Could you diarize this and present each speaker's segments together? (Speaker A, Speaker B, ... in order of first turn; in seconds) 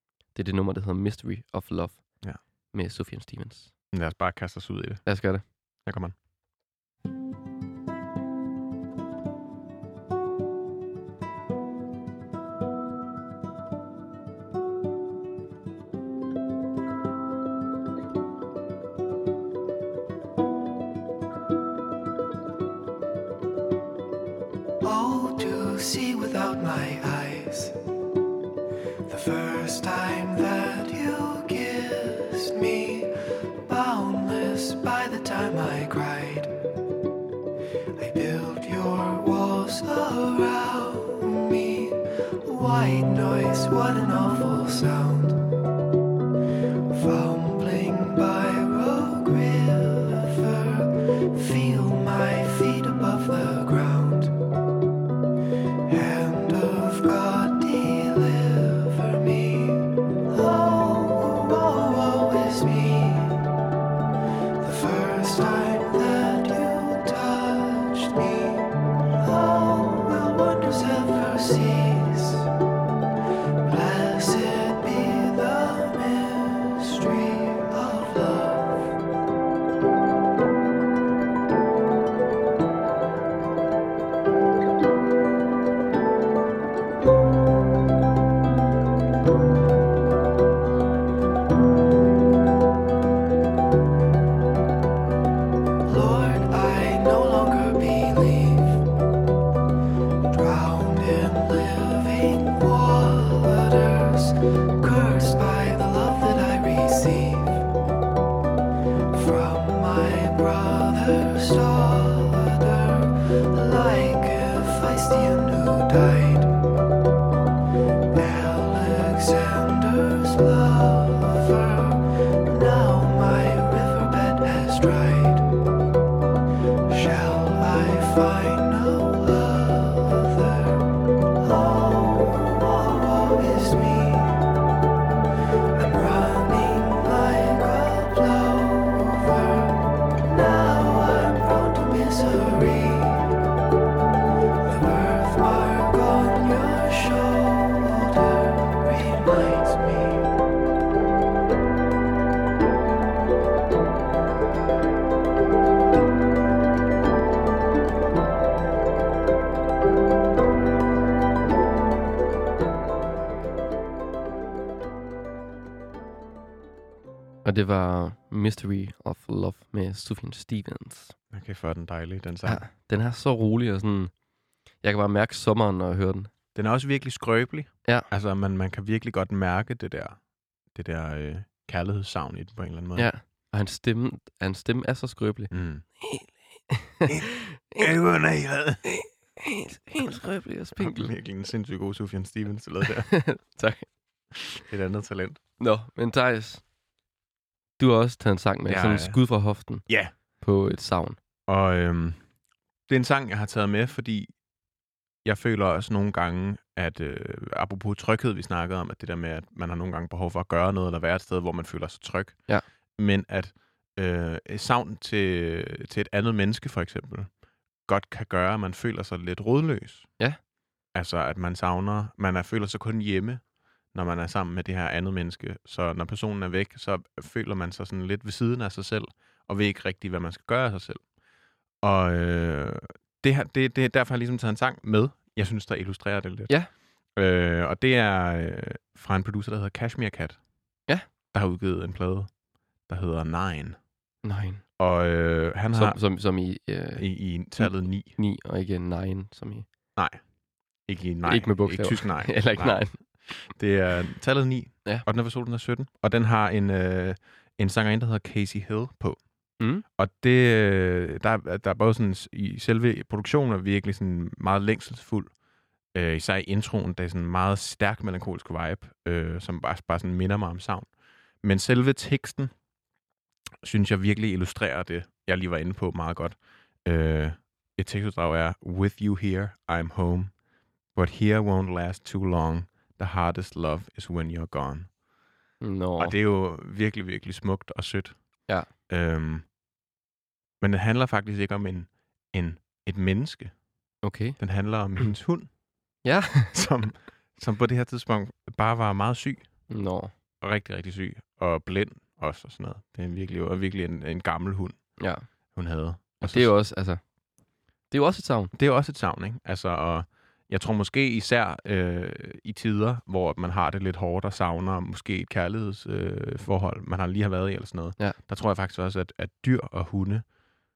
Speaker A: 0.3-2.2, 2.7-3.7, 5.0-5.4, 167.4-171.2, 172.5-174.1, 174.8-176.3, 183.0-187.9, 188.8-191.1, 192.8-193.9, 195.6-196.6, 197.8-201.2, 244.2-244.6, 245.7-247.1, 247.6-249.7, 251.2-253.0, 259.6-259.9, 285.6-286.1, 294.0-294.4, 296.0-296.5, 299.7-300.1, 305.0-305.2, 306.2-307.0, 307.9-308.5
Speaker B: 3.9-5.0, 5.8-6.1, 171.3-172.6, 176.6-180.2, 180.7-183.1, 185.5-185.8, 187.1-188.8, 190.8-193.1, 194.7-195.4, 198.7-199.2, 199.9-200.1, 201.5-202.2, 202.9-204.3, 205.2-212.4, 213.0-217.3, 217.8-220.1, 220.9-231.1, 231.8-240.4, 241.3-242.3, 242.9-243.8, 244.8-246.0, 246.9-248.2, 250.0-250.2, 250.8-259.2, 260.0-265.3, 265.9-270.9, 271.4-272.5, 273.6-280.3, 280.9-284.9, 286.0-289.5, 290.6-293.6, 294.4-295.6, 296.5-299.6, 300.4-304.9, 305.5-306.6, 308.5-320.3
Speaker C: 24.8-27.8, 29.1-36.6, 38.0-45.5, 46.9-54.4, 55.9-63.5, 64.6-72.5, 73.6-78.9, 95.8-98.9, 100.3-107.7, 109.1-116.6, 118.1-125.5, 126.9-130.9, 131.4-134.5, 135.7-143.4, 144.6-150.3